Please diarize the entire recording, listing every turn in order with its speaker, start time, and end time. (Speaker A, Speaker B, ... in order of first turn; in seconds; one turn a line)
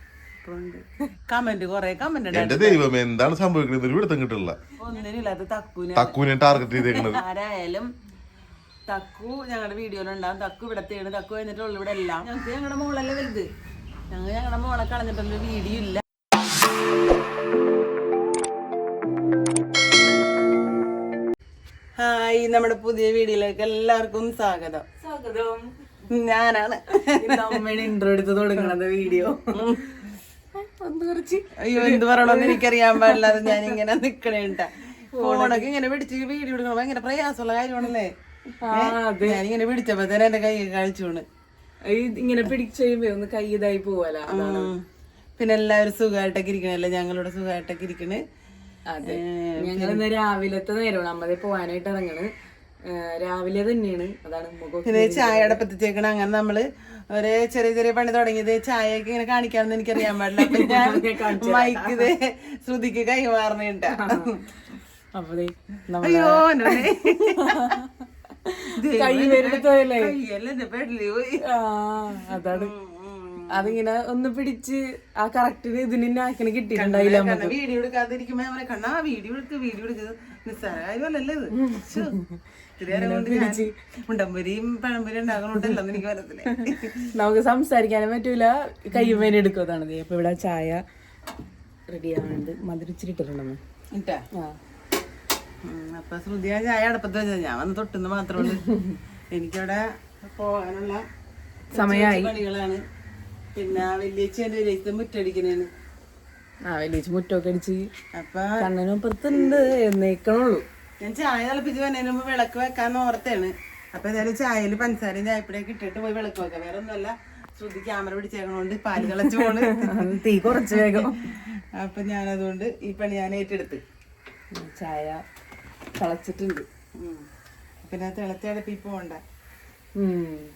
Speaker A: 0.4-2.8
Speaker B: 2.3-4.6
Speaker A: 4.8-6.2
Speaker B: 6.0-7.2
Speaker A: 6.9-7.9
Speaker A: 8.9-13.5
Speaker A: 14.1-16.0
Speaker A: 22.0-24.8
Speaker C: 25.0-25.6
Speaker A: 26.1-27.6
Speaker C: 27.1-30.0
Speaker A: 29.5-29.8
Speaker C: 30.5-33.6
Speaker A: 31.7-38.1
Speaker C: 35.2-35.7
Speaker C: 38.6-39.4
Speaker A: 38.7-41.2
Speaker C: 41.9-44.7
Speaker A: 44.3-44.8
Speaker A: 45.4-48.2
Speaker C: 48.9-52.3
Speaker A: 49.1-50.0
Speaker C: 52.9-55.6
Speaker A: 54.9-64.4
Speaker C: 60.2-62.1
Speaker C: 63.9-64.3
Speaker C: 65.2-66.8
Speaker A: 66.0-67.8
Speaker C: 67.4-67.7
Speaker C: 68.4-70.1
Speaker A: 68.7-71.4
Speaker C: 71.5-72.7
Speaker A: 72.5-73.7
Speaker C: 73.5-77.5
Speaker A: 76.7-82.2
Speaker C: 81.6-82.4
Speaker A: 82.8-87.1
Speaker C: 82.9-83.7
Speaker C: 87.1-90.8
Speaker C: 91.9-93.6
Speaker A: 93.9-94.2
Speaker A: 95.6-98.7
Speaker C: 98.6-99.0
Speaker A: 99.3-101.0
Speaker A: 101.7-102.8
Speaker C: 101.7-102.4
Speaker A: 103.5-105.7
Speaker C: 106.7-107.9
Speaker A: 108.1-108.6
Speaker C: 108.6-110.6
Speaker A: 111.0-123.8
Speaker C: 119.1-121.2
Speaker C: 124.5-125.2
Speaker C: 126.0-126.7
Speaker A: 127.0-127.2
Speaker A: 127.8-129.2
Speaker C: 130.0-130.5